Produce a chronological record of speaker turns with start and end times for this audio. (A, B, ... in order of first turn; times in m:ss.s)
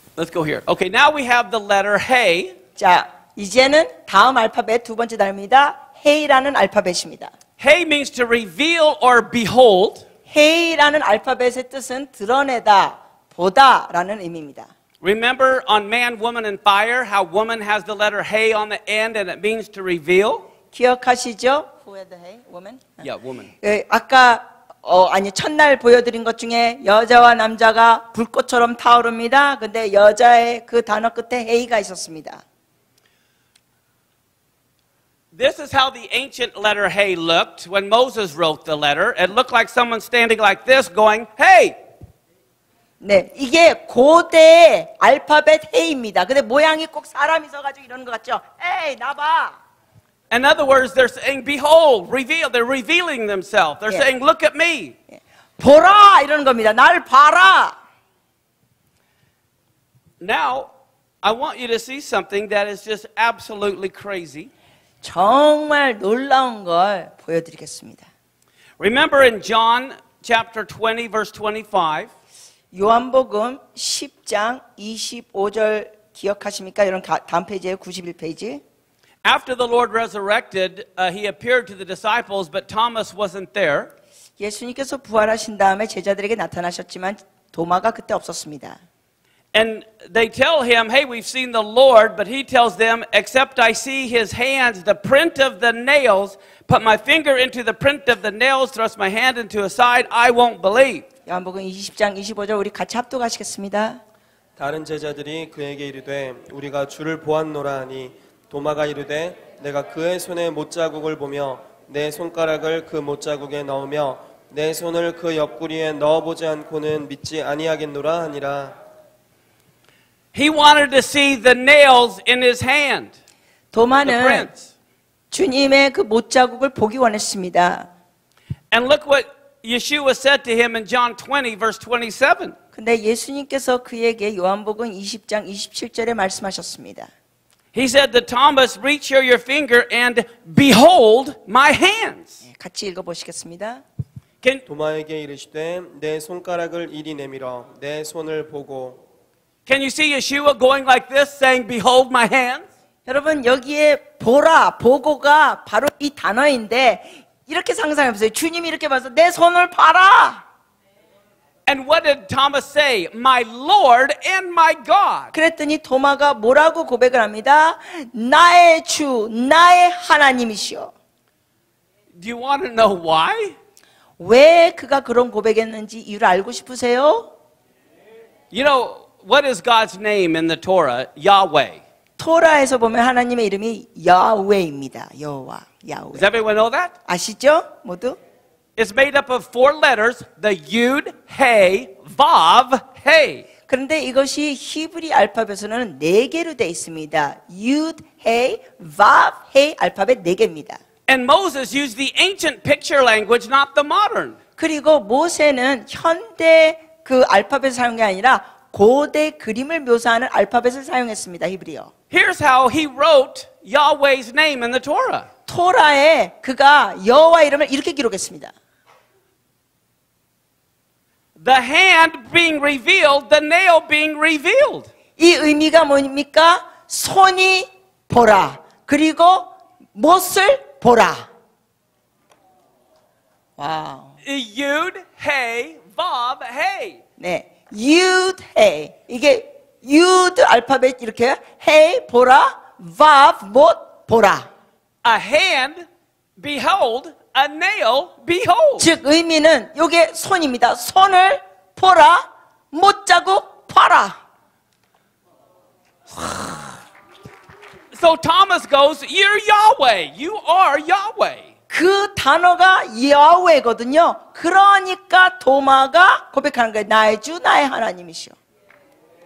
0:00.2-0:02.6 A
0:02.8-0:07.3 B
0:07.6-0:10.0 A
0:10.3-0:14.7 B
0:15.0-0:20.4 A
0:20.7-0:23.0 B
0:23.0-0:23.5 A
0:23.6-0:32.4 B
0:35.3-0:41.8 A
0:43.0-0:49.6 B
0:50.3-0:55.0 A
0:55.1-0:57.8 B
1:00.2-1:00.7 A
1:01.2-1:04.5 A
1:05.0-1:08.1 B
1:08.8-1:12.1 A
1:12.7-1:18.6 B
1:19.2-1:23.9 A
1:24.4-1:28.8 B
1:29.5-1:41.0 A
1:41.3-1:44.0 B
1:44.6-1:58.8 C
2:00.3-2:03.2 A
2:03.7-2:04.5 B
2:04.0-2:04.7 A
2:05.3-2:07.9 B
2:08.7-2:12.6 A
2:12.7-2:17.1 B
2:17.7-2:22.4 A
2:22.5-2:23.8 B
2:24.7-2:29.0 C
2:29.7-2:32.7 A
2:33.1-2:40.4 B
2:41.7-2:45.3 A
2:45.3-2:50.9 B
2:52.2-2:53.6 A
2:54.2-2:57.3 B
2:58.5-3:01.8 A
3:02.2-3:06.3 B
3:06.1-3:06.9 A
3:07.1-3:08.2 B
3:08.8-3:13.4 A
3:13.7-3:20.8 B
3:21.1-3:24.4 A
3:24.6-3:31.9 B
3:32.1-3:35.3 A
3:35.5-3:38.5 B
3:41.4-3:44.9 A
3:45.2-3:51.2 B
3:53.6-3:54.2 B
3:54.2-3:57.0 A
3:57.2-4:04.5 B
4:05.0-4:05.8 A
4:06.4-4:08.9 A
4:08.8-4:14.2 B
4:17.9-4:21.5 A
4:21.7-4:28.4 B